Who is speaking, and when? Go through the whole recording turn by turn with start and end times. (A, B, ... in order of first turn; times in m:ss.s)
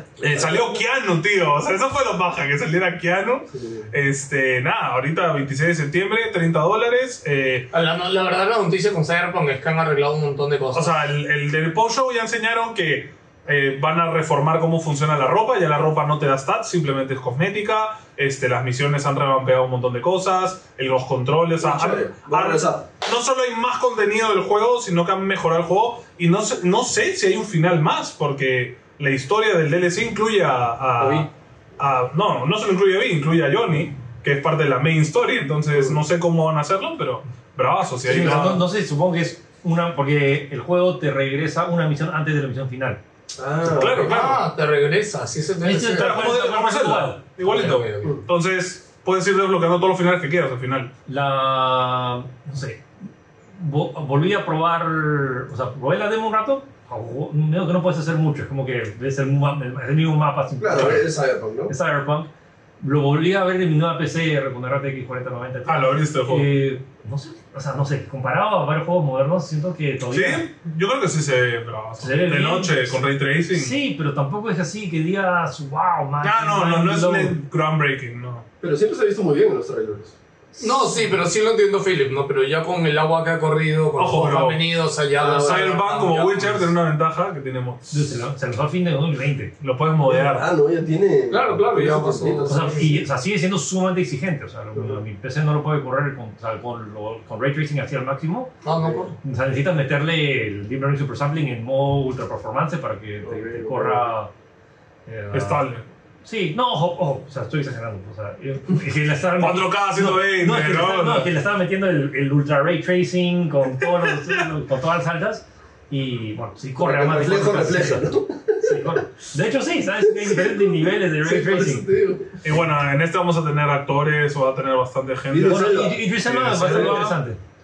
0:00.2-0:07.7 A
0:03.5-0:03.9 B
0:07.7-0:11.0 C
0:10.7-0:38.6 A
0:21.6-0:22.8 B
0:31.0-0:31.3 C
0:38.0-0:43.0 D
0:43.4-0:44.2 B
0:43.7-0:44.4 A
0:43.9-0:46.4 C
0:45.6-0:47.2 D
0:46.0-0:50.9 A
0:47.4-0:48.2 C
0:51.1-0:52.8 D
0:53.6-1:10.4 D
1:00.6-1:01.7 B
1:05.7-1:06.5 A
1:10.1-1:13.8 A
1:12.0-1:13.0 D
1:13.5-1:17.4 D
1:16.2-1:18.5 A
1:18.6-1:20.2 B
1:20.6-1:26.7 C
1:24.0-1:24.6 A
1:25.2-1:25.8 B
1:25.2-1:28.1 A
1:27.9-1:29.5 D
1:29.6-1:30.5 A
1:30.0-1:32.7 B
1:31.3-1:33.0 C
1:32.5-1:38.5 D
1:34.8-1:35.0 B
1:38.6-1:39.2 C
1:38.7-1:39.1 B
1:39.2-1:44.3 D
1:43.2-1:44.1 B
1:45.1-1:45.6 D
1:45.3-1:45.9 A
1:46.2-1:58.1 D
1:49.4-1:51.3 A
1:56.8-1:59.0 B
1:58.6-2:01.9 D
2:00.0-2:02.4 B
2:02.4-2:07.2 A
2:05.3-2:07.0 B
2:05.4-2:07.4 D